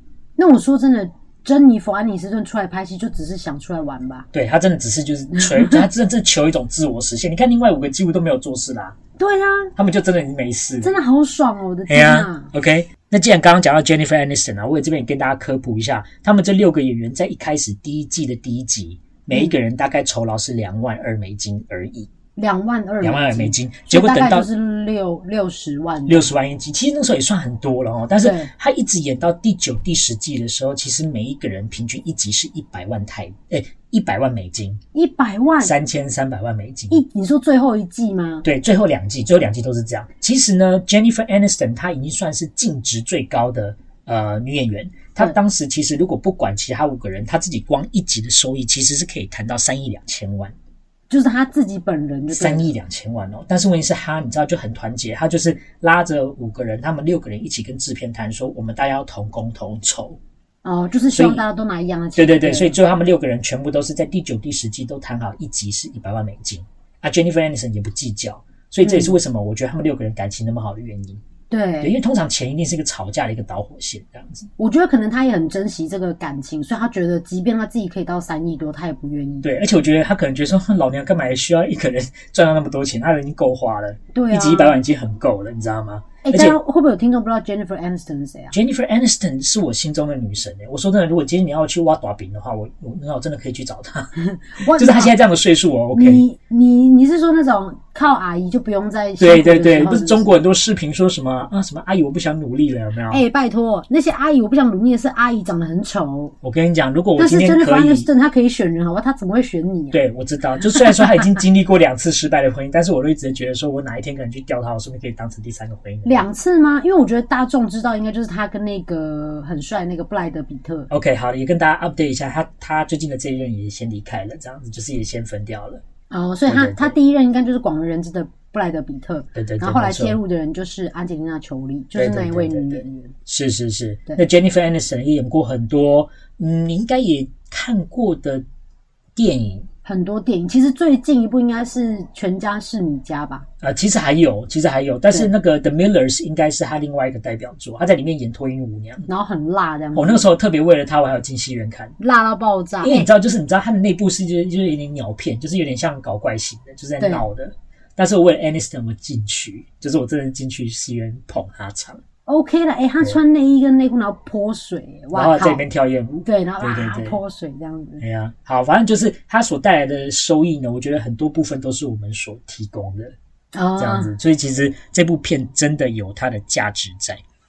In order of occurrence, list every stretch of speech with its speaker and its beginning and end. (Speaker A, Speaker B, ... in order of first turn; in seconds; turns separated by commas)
Speaker A: 0.4-4.3, Speaker B: 4.3-9.0, Speaker A: 5.4-5.8, Speaker A: 9.2-9.7, Speaker B: 9.8-10.9, Speaker A: 10.8-12.5, Speaker B: 11.9-22.1, Speaker A: 22.4-26.3, Speaker B: 23.0-24.5, Speaker B: 26.1-34.8, Speaker A: 28.2-28.5, Speaker A: 34.9-35.7, Speaker B: 35.6-37.0, Speaker A: 36.9-38.5, Speaker B: 38.4-50.5, Speaker A: 51.1-52.7, Speaker B: 52.3-60.2, Speaker A: 60.6-62.8, Speaker B: 61.1-61.4, Speaker B: 62.2-71.2, Speaker A: 68.8-69.2, Speaker A: 71.5-71.9, Speaker B: 71.8-74.5, Speaker A: 74.6-79.5, Speaker B: 79.4-86.6, Speaker A: 84.1-84.8, Speaker A: 86.2-88.5, Speaker B: 88.5-96.2, Speaker A: 94.2-95.1, Speaker A: 95.9-100.3, Speaker B: 99.2-103.2, Speaker A: 103.1-106.3, Speaker B: 106.4-108.1, Speaker A: 107.2-110.0, Speaker B: 109.9-116.3, Speaker A: 116.0-120.9, Speaker B: 120.9-125.8, Speaker A: 126.1-133.1, Speaker B: 126.5-127.0, Speaker B: 129.3-130.2, Speaker B: 131.9-138.4, Speaker B: 139.2-139.7, Speaker A: 139.8-143.5, Speaker B: 143.6-149.1, Speaker A: 149.1-150.3, Speaker B: 149.9-151.9, Speaker A: 152.0-153.1, Speaker B: 152.8-162.0, Speaker A: 157.0-157.2, Speaker A: 162.3-165.6, Speaker B: 165.1-167.2, Speaker A: 166.2-168.0, Speaker B: 168.0-173.2, Speaker A: 173.5-174.1, Speaker B: 173.8-177.2